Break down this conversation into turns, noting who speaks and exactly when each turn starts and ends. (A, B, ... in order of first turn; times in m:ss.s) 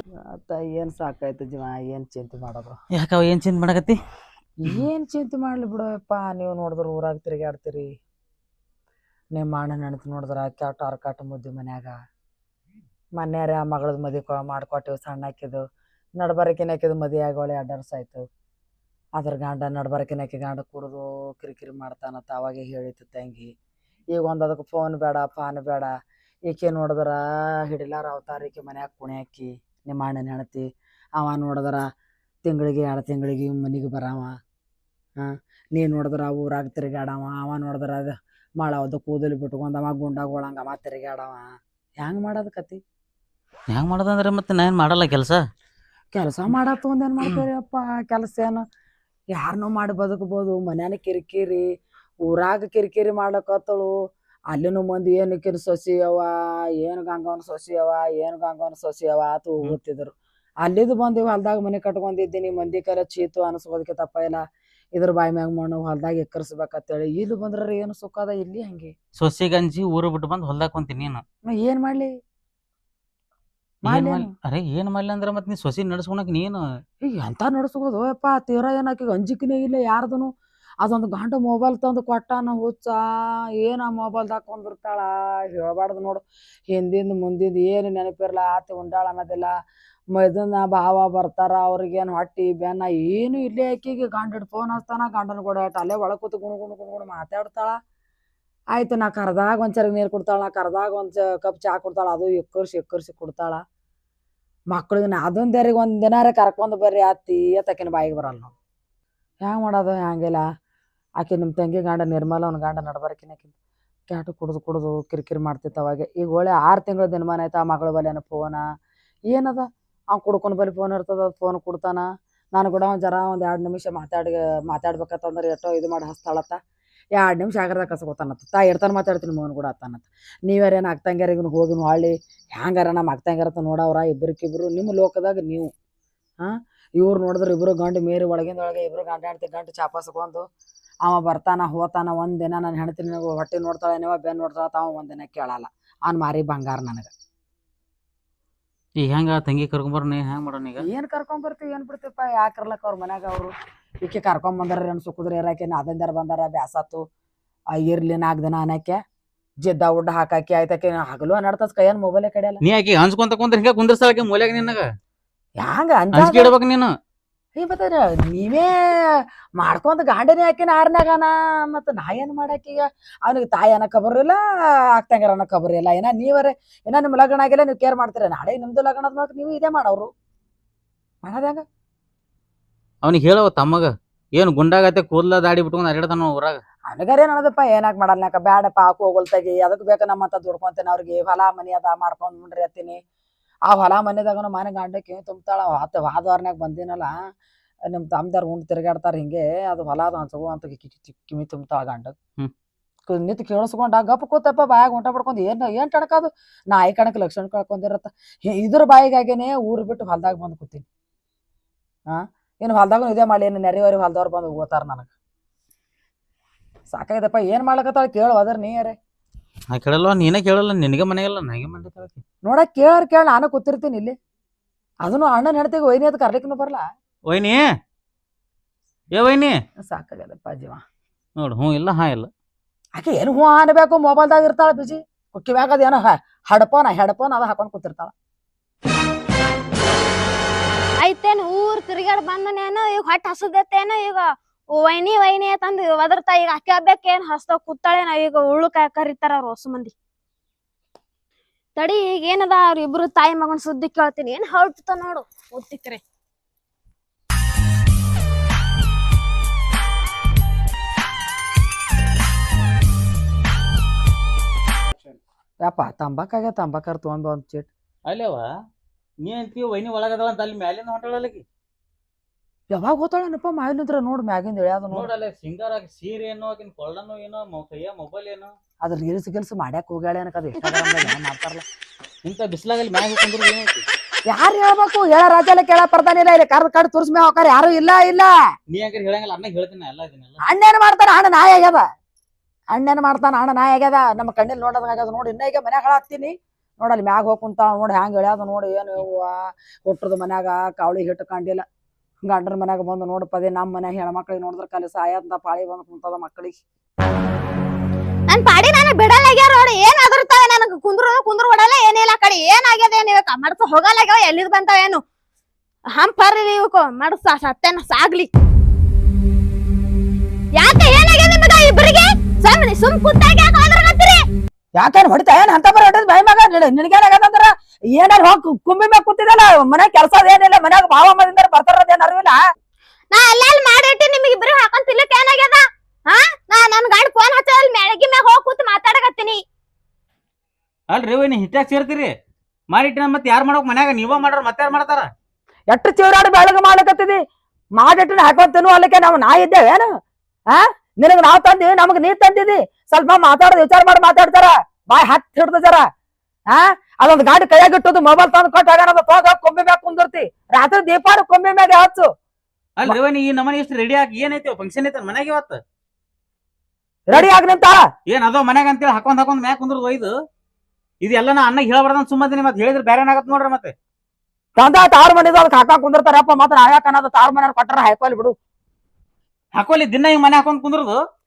0:00.3-0:02.8 A
0:03.0-0:04.0 B
0:04.6-0:07.9 A
0:09.4-0:11.9 A
0:13.2-0:15.6 A
0:16.2-0:18.3 A
0:19.2-0:23.5 A
0:24.1-0:25.9 A
0:26.5-0:31.8 A
0:32.5-0:34.3 A
0:35.2-0:42.8 A
0:43.7-0:45.4 B
0:46.1-0:48.6 A
0:49.3-0:51.6 A
0:52.2-0:53.9 A
0:54.5-1:04.4 A
1:05.0-1:08.9 A
1:09.2-1:11.2 B
1:11.5-1:12.1 A
1:13.8-1:14.3 A
1:13.9-1:16.6 B
1:17.0-1:23.0 A
1:23.6-1:29.5 A
1:30.2-1:37.8 A
1:38.7-1:43.6 A
1:44.7-1:48.5 A
1:49.4-1:50.4 A
1:51.2-1:53.5 A
1:54.1-1:58.6 A
1:59.3-2:06.6 A
2:07.2-2:15.7 A
2:16.4-2:20.5 A
2:21.0-2:27.1 A
2:29.0-2:30.8 B
2:30.8-2:33.5 A
2:34.0-2:37.0 A
2:37.8-2:39.0 A
2:39.6-2:42.6 A
2:42.6-2:44.9 B
2:45.6-2:46.5 A
2:46.1-2:47.0 B
2:47.6-2:48.8 A
2:49.6-2:54.4 A
2:55.0-3:00.1 A
3:01.2-3:01.6 A
3:03.0-3:06.6 B
3:06.9-3:13.0 A
3:13.7-3:17.1 A
3:17.9-3:22.2 A
3:23.1-3:30.8 A
3:32.1-3:35.1 A
3:36.9-3:39.0 A
3:39.7-3:42.2 B
3:42.5-3:44.2 A
3:45.0-3:46.8 A
3:47.3-3:47.6 B
3:49.1-3:49.6 B
3:49.8-3:50.8 A
3:51.4-3:52.3 B
3:53.0-3:58.1 A
4:01.0-4:09.9 C
4:11.8-4:16.0 C
4:25.6-4:27.7 A
4:28.1-4:28.5 B
4:29.2-4:31.4 B
4:32.7-4:35.1 A
4:34.9-4:38.5 B
4:38.8-4:41.6 A
4:42.2-4:43.8 B
4:44.3-4:48.3 A
4:48.7-4:50.4 B
4:50.4-4:51.8 A
4:52.7-5:01.6 A
5:02.2-5:06.6 A
5:08.3-5:15.0 C
5:15.9-5:18.3 C
5:20.6-5:24.2 C
5:24.8-5:32.4 A
5:33.1-5:39.4 C
5:40.9-5:42.1 B
5:42.7-5:45.1 B
5:45.7-5:47.2 A
5:47.8-5:49.9 A
5:50.5-5:55.9 A
5:56.5-6:02.1 A
6:02.8-6:05.6 B
6:07.1-6:07.8 A
6:08.1-6:10.1 B
6:11.0-6:13.7 B
6:14.6-6:18.3 A
6:19.6-6:21.0 B